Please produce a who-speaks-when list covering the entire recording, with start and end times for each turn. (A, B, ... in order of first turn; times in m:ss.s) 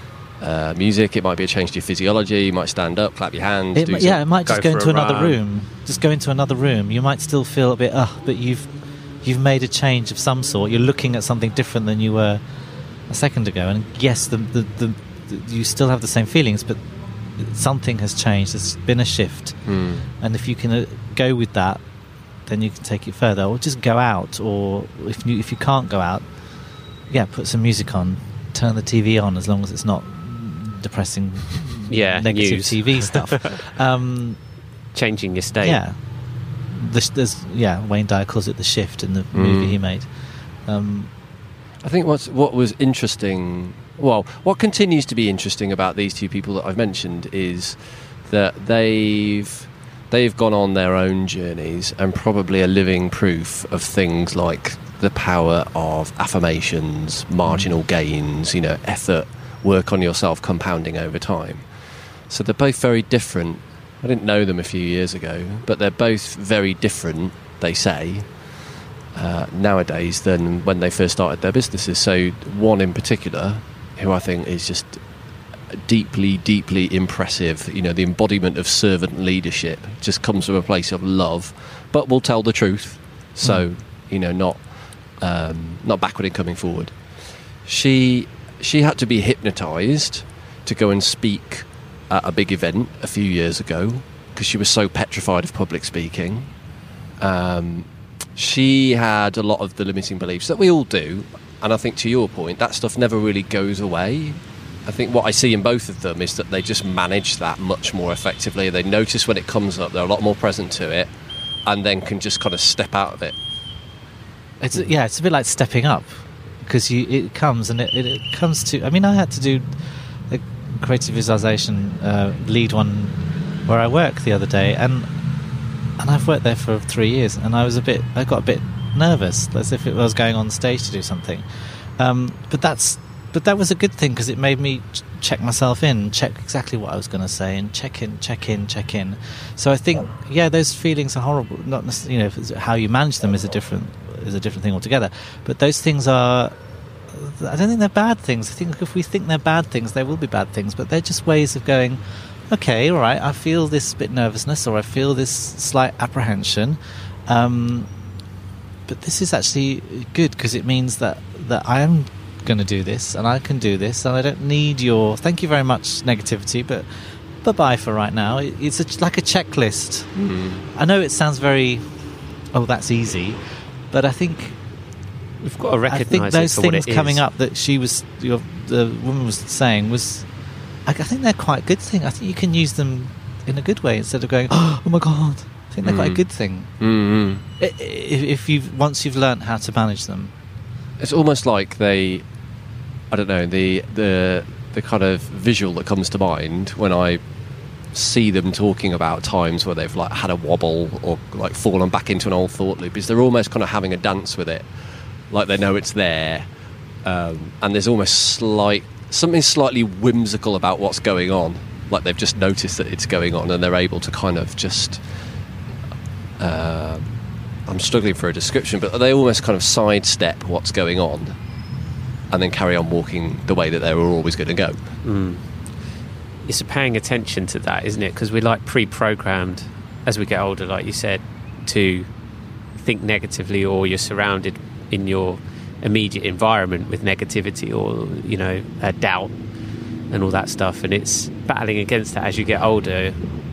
0:00.4-0:04.2 A
0:03.7-0:12.4 B
0:04.4-0:05.4 C
0:13.1-0:19.6 B
0:19.6-0:20.1 A
0:20.2-0:21.8 B
0:22.4-0:26.2 B
0:27.1-0:34.4 B
0:31.9-0:33.5 C
0:34.9-0:35.8 C
0:35.6-0:36.0 B
0:36.7-0:40.1 B
0:39.3-0:39.8 A
0:40.6-0:41.1 B
0:41.8-1:01.6 A
0:57.4-0:57.8 B
1:02.3-1:08.3 A
1:09.1-1:15.0 A
1:15.7-1:24.6 A
1:25.2-1:26.9 A
1:27.6-1:36.5 A
1:37.2-1:51.1 A
1:51.6-1:53.3 A
1:54.6-2:05.1 B
2:06.0-2:11.4 B
2:12.0-2:26.5 B
2:27.1-2:37.9 B
2:38.9-2:50.1 B
2:50.2-2:50.6 A
2:50.7-2:51.8 B
2:52.5-2:53.4 B
2:53.9-2:54.6 B
2:55.4-2:57.2 C
2:55.9-3:00.3 B
3:00.8-3:06.7 B
3:05.8-3:06.2 A
3:06.8-3:07.4 A
3:07.6-3:10.3 B
3:11.0-3:12.2 A
3:13.1-3:17.2 A
3:17.9-3:24.6 A
3:25.3-3:26.5 A
3:27.0-3:35.0 A
3:36.4-3:37.1 A
3:37.7-3:41.4 A
3:42.3-3:44.8 A
3:45.0-3:45.4 C
3:46.4-3:52.1 C
3:52.8-3:59.3 C
4:00.1-4:03.2 C